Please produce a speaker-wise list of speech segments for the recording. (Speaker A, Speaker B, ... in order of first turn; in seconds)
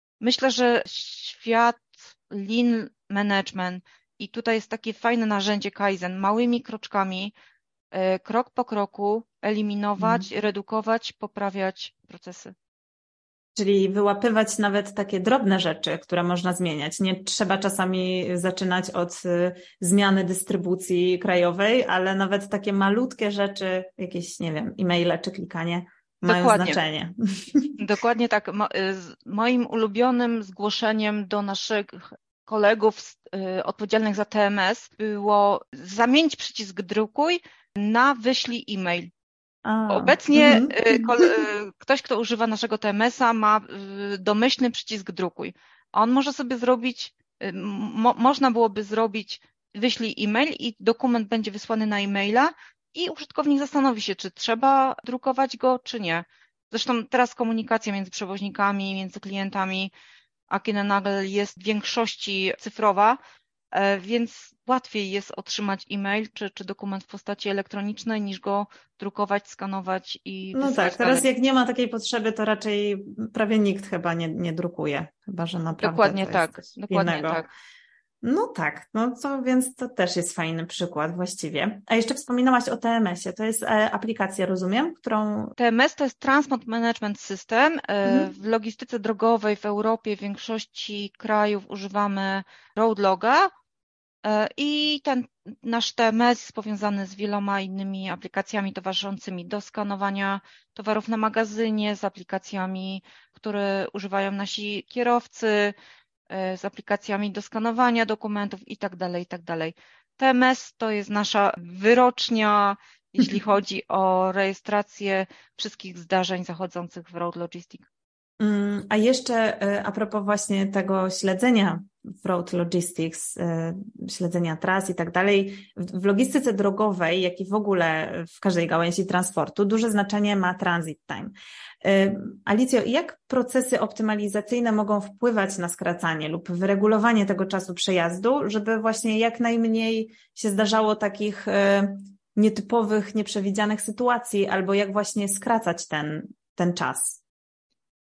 Speaker A: 0.2-7.3, 7.9-12.5, 26.2-26.8, 27.8-39.1, 39.9-59.9, 60.5-63.2, 63.7-71.2, 75.8-77.5, 85.6-93.5, 94.2-105.7, 106.3-117.9
Speaker B: 10.0-10.2, 13.5-27.8, 39.6-41.3, 70.5-77.5, 78.2-85.5, 88.0-88.3, 118.4-147.2